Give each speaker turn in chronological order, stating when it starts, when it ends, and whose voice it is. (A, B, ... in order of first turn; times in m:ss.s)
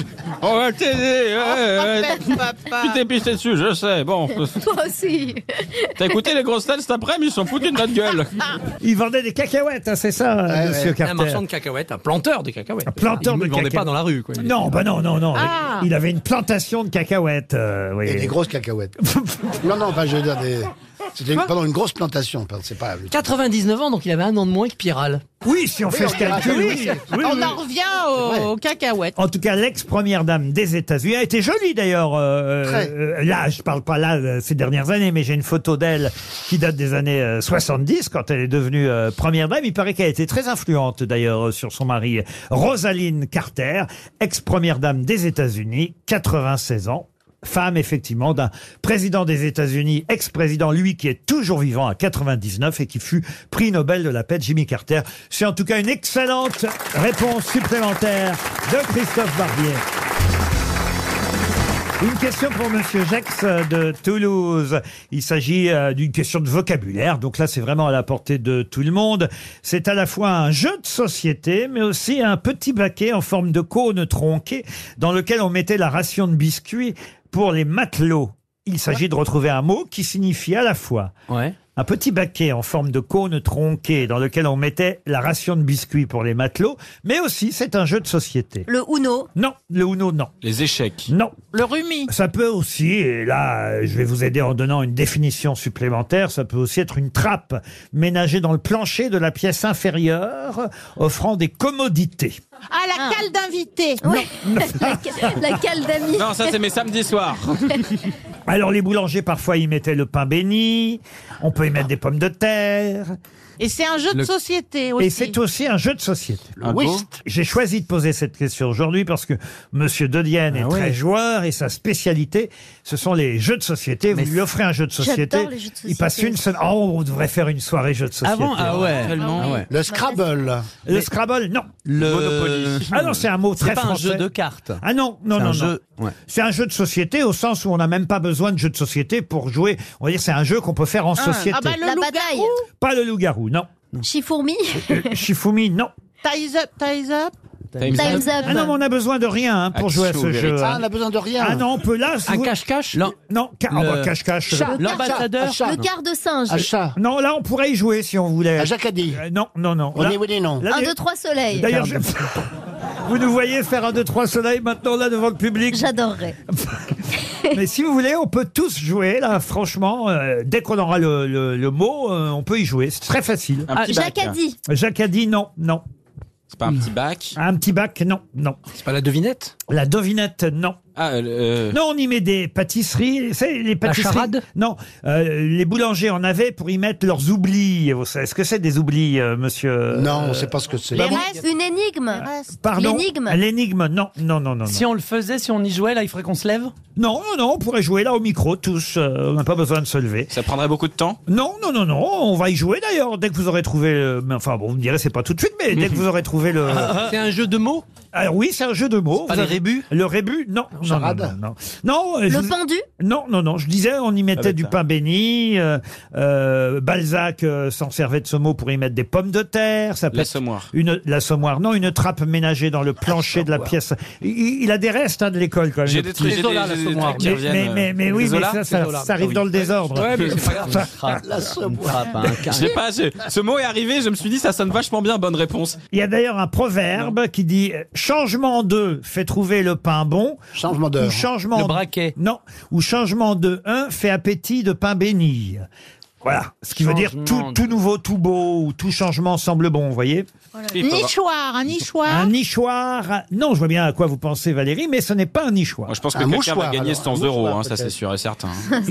0:00.4-0:04.6 A
0:01.4-0:03.0 B
0:04.6-0:05.9 C
0:06.0-0:08.4 A
0:08.8-0:11.4 D
0:10.5-0:11.0 E
0:11.0-0:14.7 F
0:12.9-0:18.4 D
0:15.3-0:15.9 B
0:18.0-0:18.9 E
0:19.0-0:19.6 D
0:19.6-0:23.1 E
0:23.1-0:25.2 F
0:25.4-0:27.2 D
0:25.9-0:27.6 E
0:26.5-0:29.2 B
0:28.2-0:28.5 E
0:29.2-0:59.8 D
0:32.6-0:32.9 E
1:02.0-1:21.1 D
1:21.3-1:21.6 G
1:21.7-1:28.7 D
1:28.7-1:29.3 C
1:29.4-1:30.3 D
1:30.4-1:31.1 A
1:31.1-1:31.4 D
1:31.5-1:32.1 B
1:32.1-1:42.4 D
1:42.7-1:44.0 B
1:43.0-1:43.2 C
1:44.0-1:46.6 C
1:44.0-1:45.6 D
1:46.1-1:48.1 A
1:48.5-1:53.2 D
1:53.6-1:55.4 B
1:55.0-1:56.5 D
1:56.6-1:57.2 E
1:56.6-1:57.0 A
1:57.2-2:09.0 D
2:05.0-2:06.4 C
2:08.2-2:09.7 G
2:08.8-2:09.6 A
2:09.2-2:09.5 B
2:09.7-2:10.8 E
2:09.9-2:10.3 C
2:10.8-2:11.8 D
2:11.9-2:14.8 G
2:12.0-2:12.9 A
2:12.9-2:14.3 D
2:14.8-2:15.7 D
2:15.3-2:16.1 G
2:16.3-2:21.8 D
2:21.4-2:22.6 B
2:21.8-2:22.5 C
2:22.8-2:23.7 D
2:24.0-2:25.1 C
2:24.8-2:25.9 D
2:26.2-2:27.3 B
2:27.8-2:28.0 G
2:27.8-2:28.4 A
2:27.9-2:28.6 C
2:28.0-2:28.7 B
2:28.4-2:30.8 D
2:29.8-2:30.5 A
2:30.4-2:31.6 E
2:31.4-2:32.5 D
2:32.3-2:33.0 F
2:33.2-2:35.0 D
2:33.7-2:34.1 G
2:34.5-2:35.8 E
2:34.7-2:35.8 G
2:34.7-2:36.7 C
2:36.5-2:37.0 E
2:37.0-2:40.9 D
2:38.6-2:39.2 E
2:39.9-2:40.6 E
2:40.7-2:41.9 C
2:41.5-2:42.4 D
2:43.0-2:45.9 D
2:45.7-2:46.4 C
2:46.5-2:53.7 D
2:53.7-2:54.4 A
2:53.8-2:54.6 C
2:54.7-2:55.8 D
2:56.5-2:57.3 A
2:57.3-2:58.6 D
2:58.7-2:59.5 F
2:59.7-3:00.8 D
3:01.0-3:01.8 A
3:01.7-3:11.2 D
3:03.8-3:04.4 F
3:09.9-3:11.2 E
3:10.9-3:13.4 C
3:11.0-3:11.4 B
3:12.1-3:12.6 B
3:12.6-3:14.8 D
3:14.7-3:16.7 G
3:17.0-3:20.3 D
3:20.3-3:21.2 A
3:21.3-3:27.0 D
3:26.7-3:27.8 F
3:28.1-3:46.5 D
3:29.3-3:29.8 F
3:29.3-3:29.6 G
3:30.8-3:31.4 E
3:32.3-3:32.8 C
3:34.4-3:34.7 A
3:40.1-3:40.7 A
3:45.8-3:48.6 A
3:46.2-3:47.4 F
3:47.1-3:51.2 D
3:48.1-3:50.9 F
3:50.7-3:52.7 G
3:51.2-3:52.6 E
3:52.4-3:55.8 A
3:55.9-4:00.4 D
4:00.5-4:01.2 E
4:01.0-4:05.6 D
4:01.5-4:02.1 G
4:06.2-4:10.3 D
4:06.7-4:07.6 G
4:10.7-4:11.1 A
4:10.7-4:12.3 B
4:12.0-4:16.0 D
4:15.9-4:18.7 A
4:16.1-4:18.0 E